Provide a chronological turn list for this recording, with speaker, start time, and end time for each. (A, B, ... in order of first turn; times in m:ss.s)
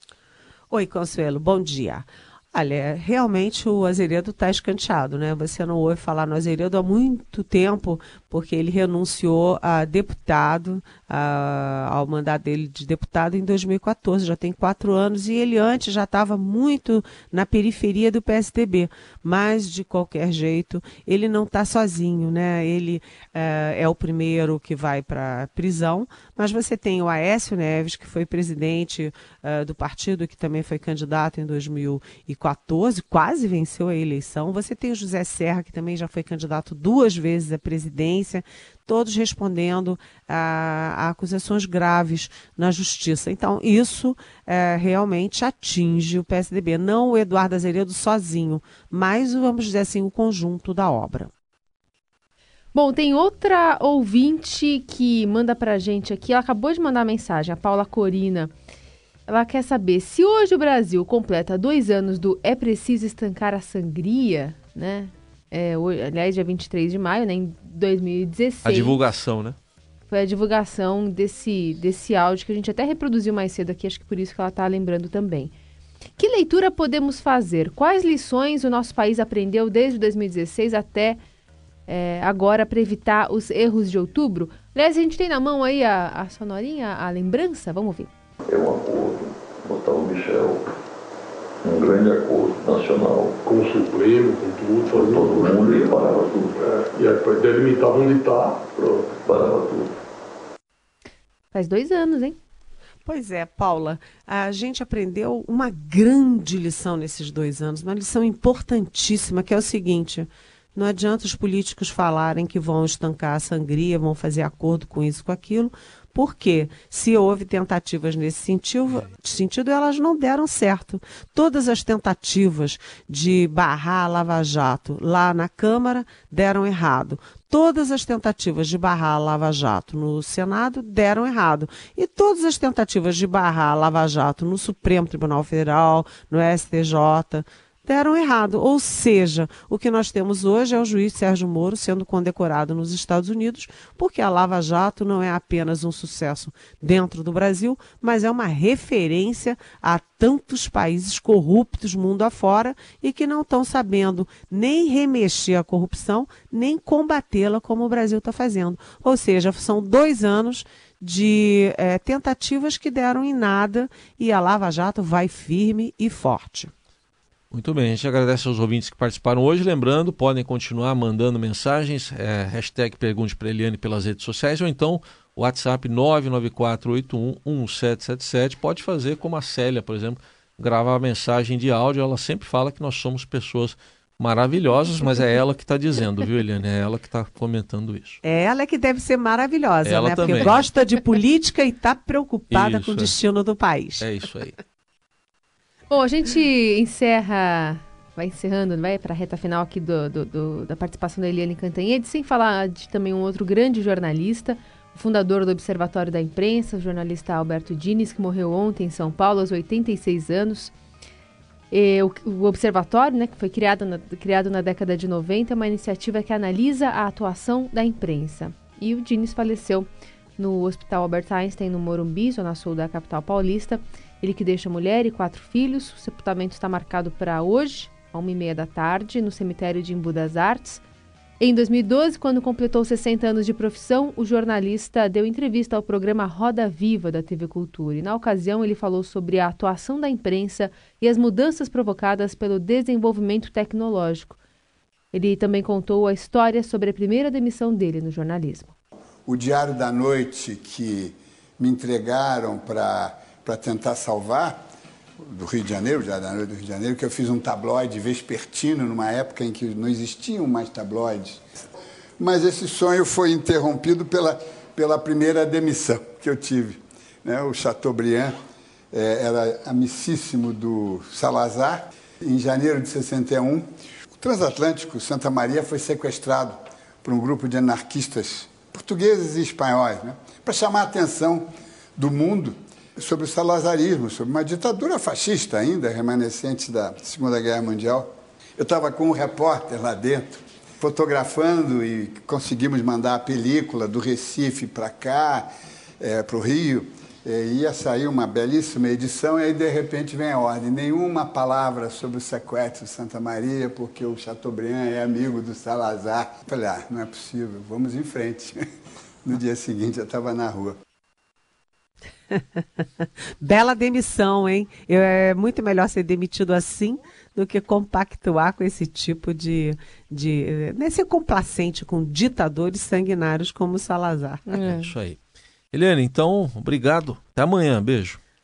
0:00.7-0:51.3 A
0:52.7-0:58.5 B
0:59.3-1:09.0 B
1:08.6-1:09.6 C
1:10.1-1:15.5 B
1:16.2-1:21.2 B
1:21.9-1:28.1 B
1:28.4-1:30.7 D
1:31.6-1:33.4 D
1:33.4-1:35.9 E
1:34.9-1:36.6 D
1:36.6-1:39.1 E
1:39.2-1:39.9 D
1:41.5-1:42.4 B
1:43.0-2:46.7 A
2:47.5-3:08.2 C
3:08.2-3:14.0 A
3:09.8-3:10.6 C
3:12.5-3:13.1 C
3:14.0-3:14.6 C
3:15.9-3:30.7 B
3:31.7-3:50.8 B
3:51.4-4:04.4 B
4:05.1-4:08.7 B
4:09.2-4:14.6 F
4:15.2-4:21.6 F
4:22.2-4:28.4 F
4:28.9-4:55.5 F
4:56.0-5:08.6 F
5:09.2-5:10.8 F
5:12.3-5:24.5 A
5:24.5-5:24.9 B
5:24.6-5:25.2 C
5:25.7-5:28.2 C